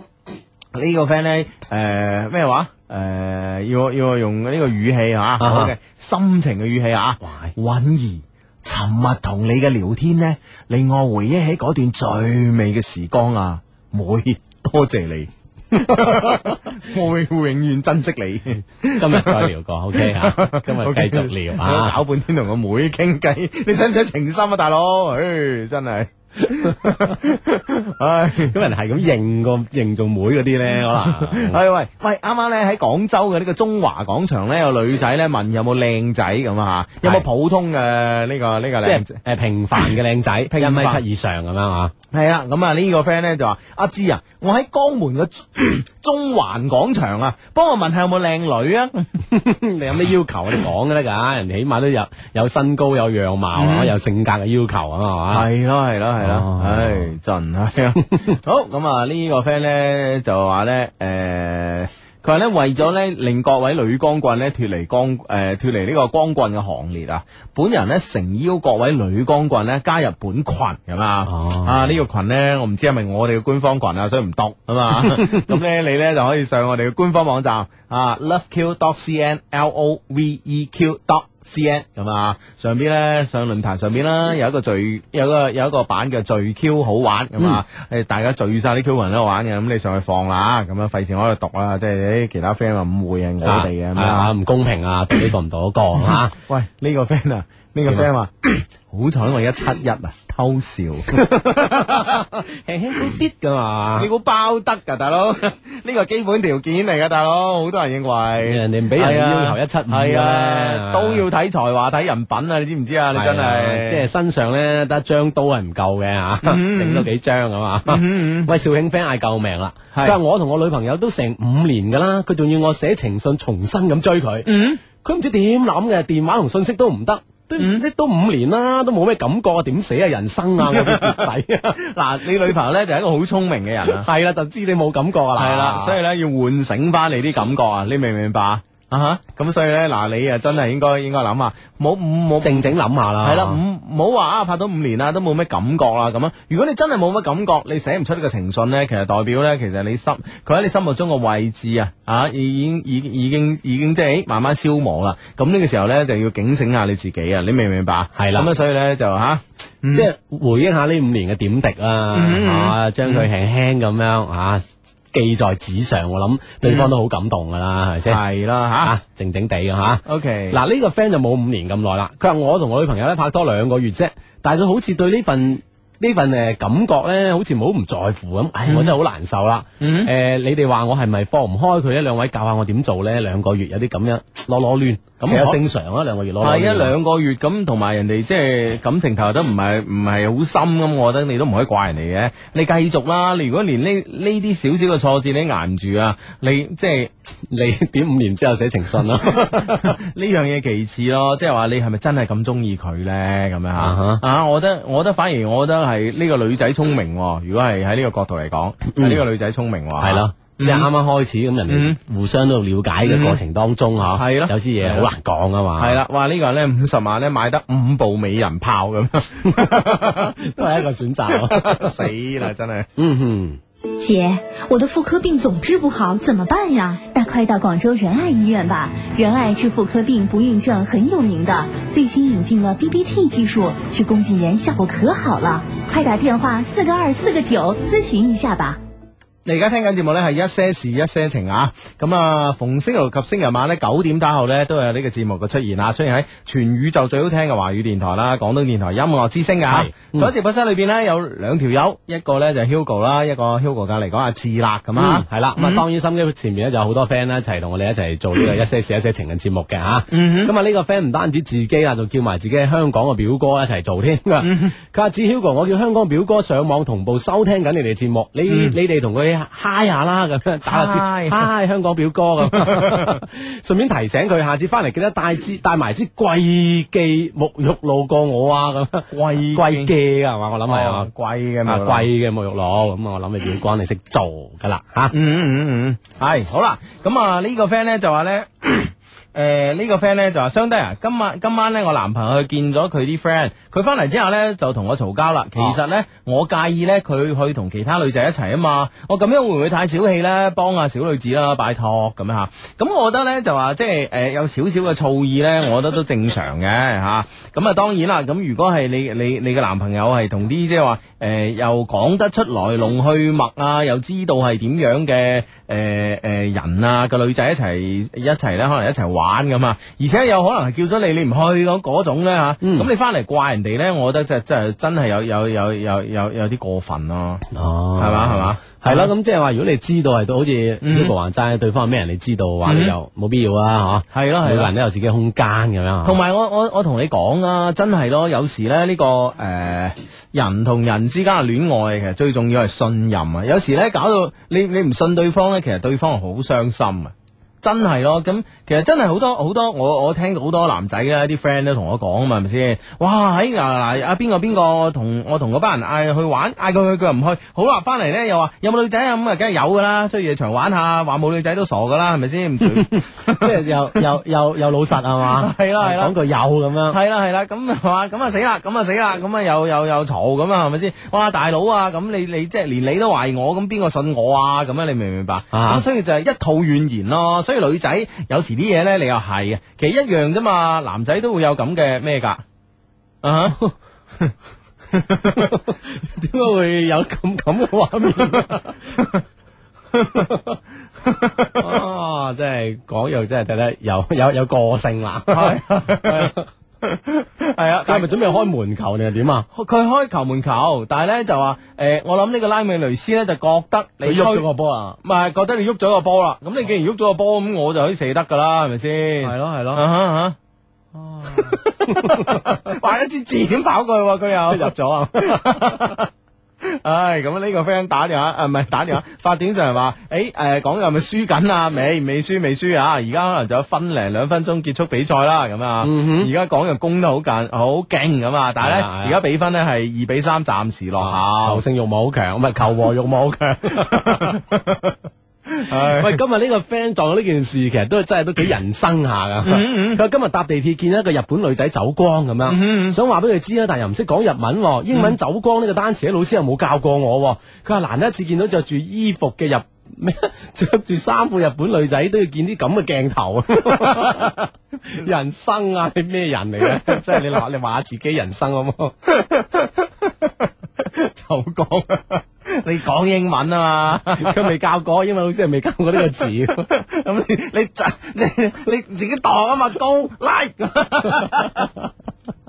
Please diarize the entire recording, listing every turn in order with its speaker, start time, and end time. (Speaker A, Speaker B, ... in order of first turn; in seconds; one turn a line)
Speaker A: 0.7-28.6
Speaker B: 5.4-5.7
Speaker B: 7.2-7.5
Speaker B: 19.0-22.0
Speaker B: 26.7-27.2
Speaker B: 28.5-31.6
Speaker A: 30.9-39.2
Speaker B: 38.8-41.9
Speaker A: 40.5-41.0
Speaker A: 42.1-49.1
Speaker B: 49.3-55.5
Speaker A: 53.5-53.9
Speaker A: 55.3-94.3
Speaker B: 56.2-57.1
Speaker B: 71.3-72.0
Speaker B: 75.2-75.5
Speaker B: 93.4-96.3
Speaker A: 96.0-102.2
Speaker B: 101.1-104.1
Speaker A: 104.0-114.0
Speaker B: 108.4-111.2
Speaker B: 113.1-131.8
Speaker A: 116.4-117.1
Speaker A: 117.8-118.5
Speaker A: 124.5-124.8
Speaker A: 127.6-127.8
Speaker A: 130.6-134.1
Speaker B: 133.8-136.0
Speaker A: 135.3-160.1
Speaker B: 142.4-143.6
Speaker B: 158.1-158.5
Speaker B: 159.9-168.2
Speaker A: 162.1-163.3
Speaker A: 166.6-166.9
Speaker A: 168.1-168.9
Speaker B: 168.8-186.9
Speaker A: 170.0-170.6
Speaker A: 178.7-178.9
Speaker A: 179.8-180.1
Speaker A: 185.2-185.6
Speaker A: 186.4-197.1
Speaker B: 197.5-199.9
Speaker A: 199.2-210.9
Speaker B: 203.8-204.2
Speaker B: 208.9-209.2
Speaker B: 210.0-216.0
Speaker A: 211.7-211.9
Speaker A: 213.0-213.4
Speaker A: 214.1-215.1
Speaker A: 215.8-220.8
Speaker B: 219.6-221.9
Speaker A: 221.3-222.9
Speaker B: 223.0-223.6
Speaker C: 224.0-238.8
Speaker A: 239.4-255.8
Speaker B: 249.7-250.3
Speaker B: 254.9-281.1
Speaker A: 260.1-260.5
Speaker A: 264.4-264.7
Speaker A: 268.5-268.8
Speaker A: 270.6-271.4
Speaker A: 272.4-273.2
Speaker A: 279.1-279.9
Speaker A: 280.7-282.1
Speaker B: 281.6-285.1
Speaker A: 285.1-327.4
Speaker B: 322.6-322.9
Speaker B: 327.5-336.2
Speaker A: 328.0-329.1
Speaker A: 330.8-331.1
Speaker A: 332.6-332.9
Speaker A: 334.1-334.7
Speaker A: 336.0-364.0
Speaker B: 362.8-367.0
Speaker A: 365.2-366.1
Speaker A: 366.9-382.4
Speaker B: 375.5-375.8
Speaker A: 383.2-383.6
Speaker A: 384.9-385.6
Speaker B: 385.3-389.0
Speaker A: 388.9-389.2
Speaker A: 389.9-390.3
Speaker A: 391.0-391.8
Speaker B: 391.6-396.5
Speaker A: 395.3-398.1
Speaker B: 397.9-399.5
Speaker A: 399.5-404.4
Speaker B: 404.0-405.0
Speaker A: 405.0-410.4
Speaker B: 409.2-409.8
Speaker B: 410.9-412.7
Speaker A: 411.3-416.1
Speaker B: 414.5-415.7
Speaker A: 416.6-431.6
Speaker B: 425.8-426.3
Speaker B: 428.6-429.2
Speaker B: 431.0-434.4
Speaker A: 433.7-434.8
Speaker A: 435.5-436.2
Speaker B: 435.7-458.9
Speaker A: 439.4-440.0
Speaker A: 442.4-443.0
Speaker A: 453.7-454.3
Speaker A: 456.7-457.1
Speaker A: 459.1-464.5
Speaker B: 464.1-466.7
Speaker A: 466.6-471.9